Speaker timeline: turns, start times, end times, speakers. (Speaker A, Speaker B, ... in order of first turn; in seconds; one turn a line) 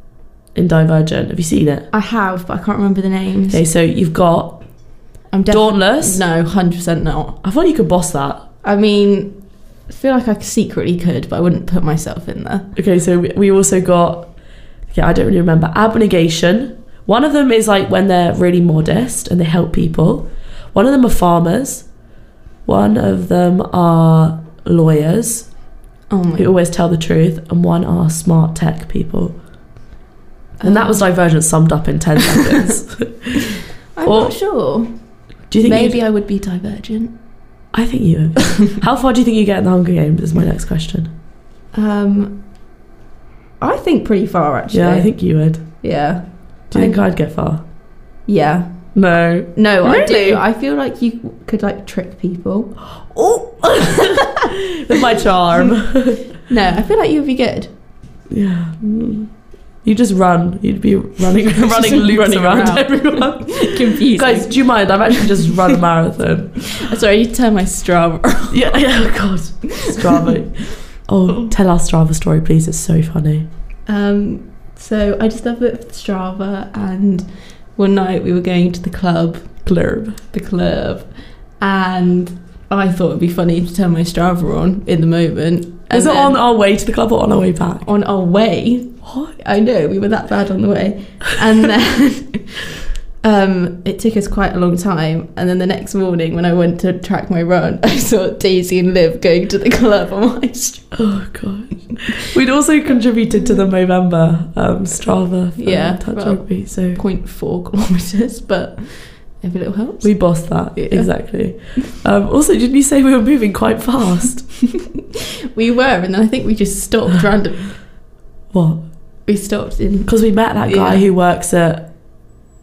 Speaker A: 0.5-1.9
Speaker B: 1.9-3.6
Speaker A: 3.5-4.9
Speaker B: 5.3-7.4
Speaker A: 5.5-6.2
Speaker A: 7.4-8.5
Speaker B: 8.6-12.7
Speaker A: 12.7-21.9
Speaker A: 22.6-25.7
Speaker B: 26.1-26.5
Speaker A: 26.4-29.4
Speaker B: 30.6-31.1
Speaker A: 30.6-34.4
Speaker B: 33.9-37.2
Speaker A: 35.5-36.0
Speaker A: 37.7-41.1
Speaker B: 41.7-42.5
Speaker B: 43.6-47.0
Speaker A: 44.7-45.9
Speaker A: 46.7-47.6
Speaker B: 48.2-49.0
Speaker A: 48.9-50.4
Speaker B: 49.5-52.8
Speaker A: 52.9-56.3
Speaker B: 56.5-57.7
Speaker A: 58.3-66.8
Speaker B: 61.4-65.5
Speaker B: 66.7-68.9
Speaker A: 68.5-73.5
Speaker B: 73.8-86.4
Speaker A: 79.6-80.2
Speaker A: 85.9-87.9
Speaker B: 87.8-101.0
Speaker A: 89.0-89.3
Speaker A: 100.9-107.0
Speaker B: 105.6-111.6
Speaker A: 110.0-114.6
Speaker B: 115.5-117.8
Speaker A: 118.5-118.9
Speaker B: 119.2-121.0
Speaker A: 120.0-122.1